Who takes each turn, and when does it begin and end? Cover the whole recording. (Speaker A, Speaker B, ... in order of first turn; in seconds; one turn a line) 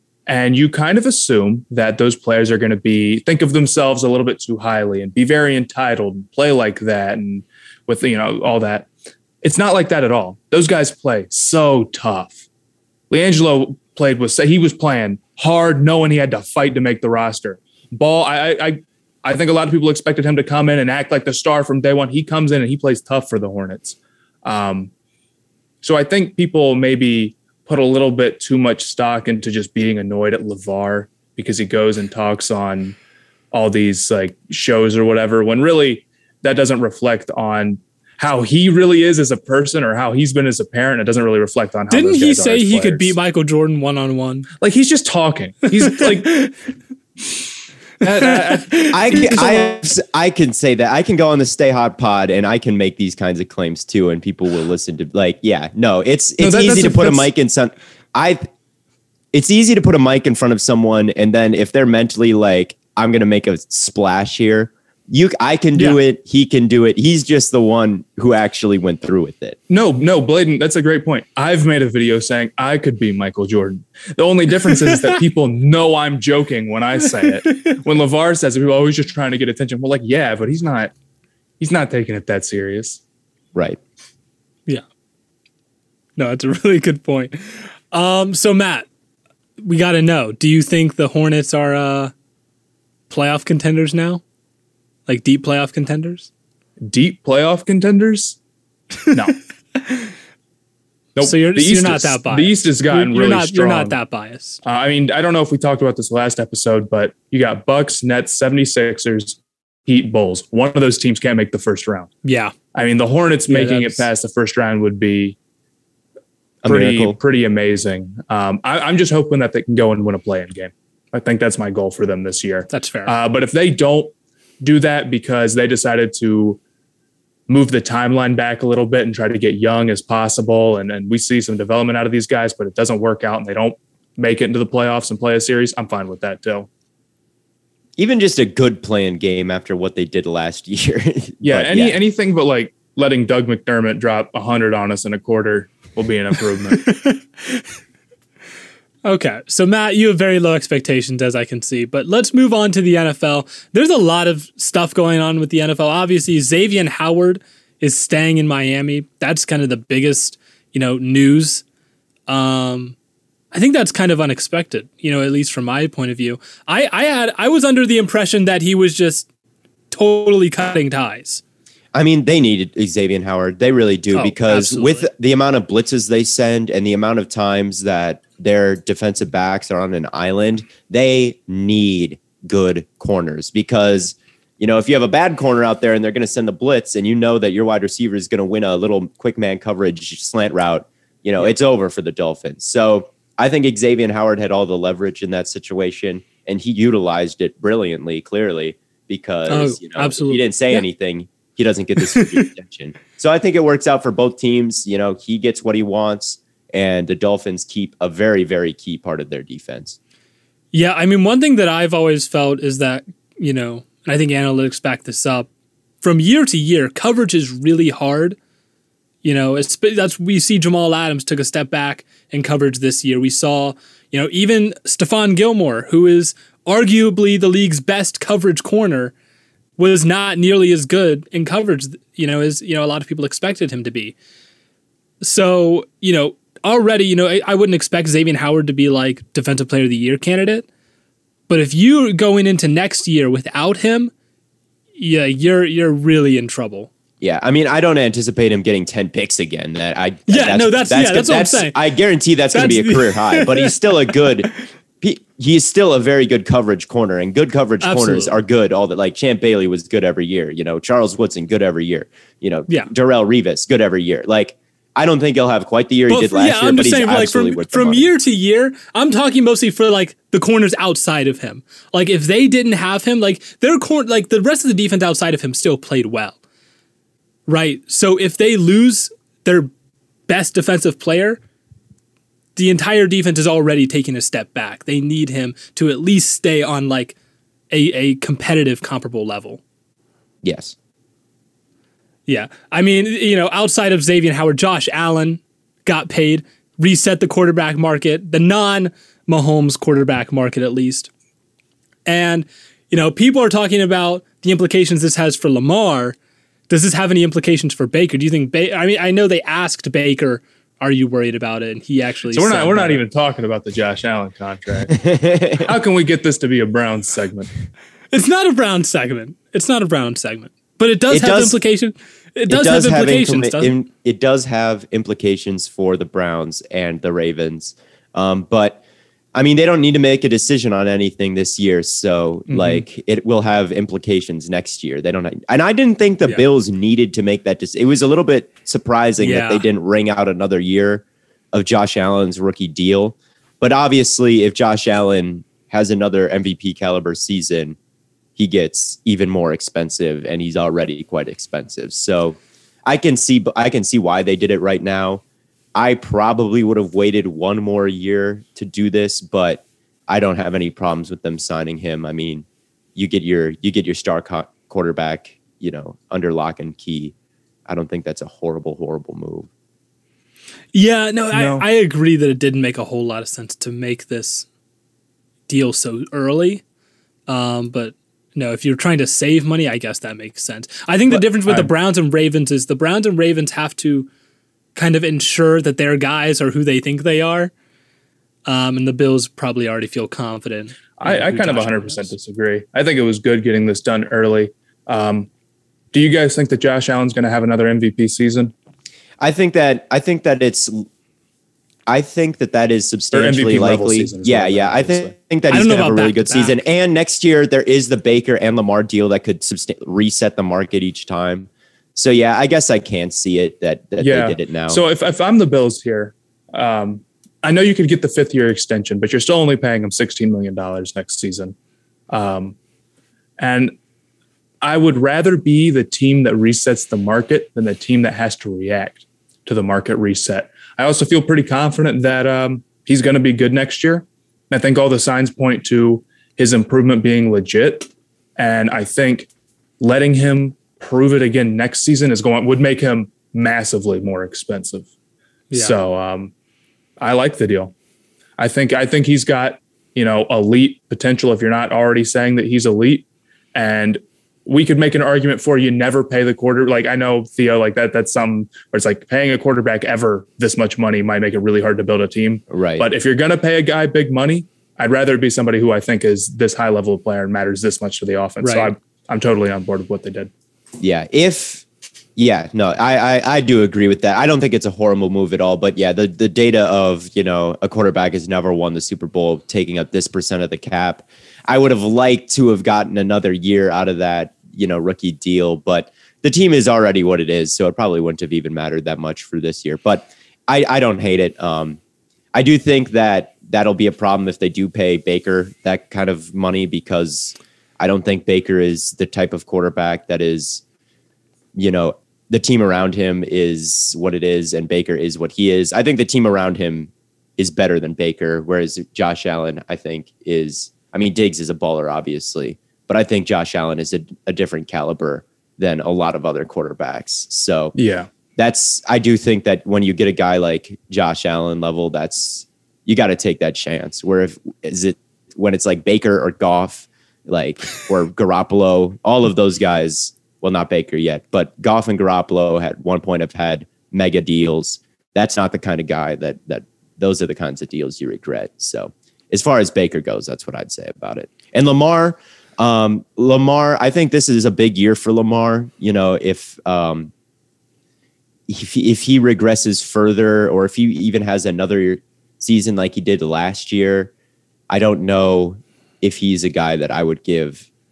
Speaker A: 0.3-8.9
Speaker A: 9.4-12.4
Speaker A: 13.1-24.9
Speaker A: 25.8-33.0
Speaker A: 33.5-43.1
Speaker B: 41.9-44.5
Speaker A: 44.6-46.5
Speaker B: 46.0-46.5
Speaker A: 48.0-49.8
Speaker B: 48.7-49.2
Speaker C: 48.9-58.5
Speaker A: 56.4-57.3
Speaker C: 59.3-69.6
Speaker A: 69.7-80.9
Speaker B: 74.7-75.2
Speaker B: 77.5-77.8
Speaker A: 81.6-83.0
Speaker B: 86.2-88.9
Speaker B: 89.6-92.1
Speaker B: 93.1-94.2
Speaker B: 95.1-96.3
Speaker A: 96.9-98.4
Speaker A: 99.1-99.4
Speaker B: 99.8-100.1
Speaker A: 101.2-104.0
Speaker B: 101.2-104.6
Speaker A: 104.6-112.1
Speaker B: 112.2-112.5
Speaker A: 112.7-115.4
Speaker B: 113.5-114.1
Speaker C: 116.6-117.2
Speaker A: 116.7-126.6
Speaker B: 122.7-123.1
Speaker A: 127.5-136.7
Speaker C: 138.0-142.0
Speaker A: 141.4-146.9
Speaker B: 146.7-147.7
Speaker B: 149.1-161.6
Speaker B: 162.3-163.0
Speaker B: 163.5-169.3
Speaker B: 169.9-171.4
Speaker C: 171.9-210.0
Speaker B: 174.1-175.1
Speaker B: 199.5-200.8
Speaker B: 202.2-202.4
Speaker B: 210.7-215.5
Speaker B: 216.0-218.4
Speaker B: 219.2-229.1
Speaker B: 229.8-234.2
Speaker B: 235.2-240.7
Speaker B: 241.5-244.1
Speaker B: 245.0-246.9
Speaker C: 247.2-268.1
Speaker B: 250.3-251.8
Speaker B: 252.5-254.2
Speaker B: 257.8-258.4
Speaker B: 266.1-276.4
Speaker B: 277.5-279.7
Speaker B: 280.3-281.4
Speaker B: 282.6-287.2
Speaker B: 287.7-289.6
Speaker C: 290.4-290.8
Speaker B: 292.3-301.1
Speaker B: 302.1-306.2
Speaker B: 306.7-313.0
Speaker A: 312.3-315.0
Speaker C: 314.9-315.7
Speaker A: 315.6-317.5
Speaker B: 318.1-323.8
Speaker C: 321.1-321.6
Speaker C: 322.5-328.8
Speaker C: 329.3-347.8
Speaker A: 332.5-332.9
Speaker B: 339.2-339.6
Speaker C: 348.4-355.2
Speaker C: 355.8-367.1
Speaker C: 367.7-369.5
Speaker B: 370.7-374.5
Speaker A: 371.3-371.6
Speaker B: 375.5-376.6
Speaker B: 377.3-384.1
Speaker A: 381.1-381.7
Speaker B: 384.8-387.5
Speaker B: 388.5-392.1
Speaker A: 391.0-395.3
Speaker A: 395.9-398.5
Speaker C: 399.2-400.9
Speaker C: 401.9-414.8
Speaker A: 403.1-405.1
Speaker B: 405.5-406.6
Speaker A: 414.0-421.6
Speaker A: 422.1-422.6
Speaker A: 423.4-423.7
Speaker A: 424.6-439.3
Speaker A: 439.8-444.9
Speaker B: 445.5-445.8
Speaker A: 445.5-446.3
Speaker A: 447.0-447.7
Speaker A: 448.4-470.3
Speaker C: 462.5-462.9
Speaker B: 468.4-468.7
Speaker C: 470.8-471.6
Speaker C: 472.2-491.8
Speaker C: 492.3-500.6
Speaker C: 501.6-517.8
Speaker A: 517.8-518.1
Speaker C: 518.4-547.1
Speaker C: 548.5-554.1
Speaker C: 554.7-557.7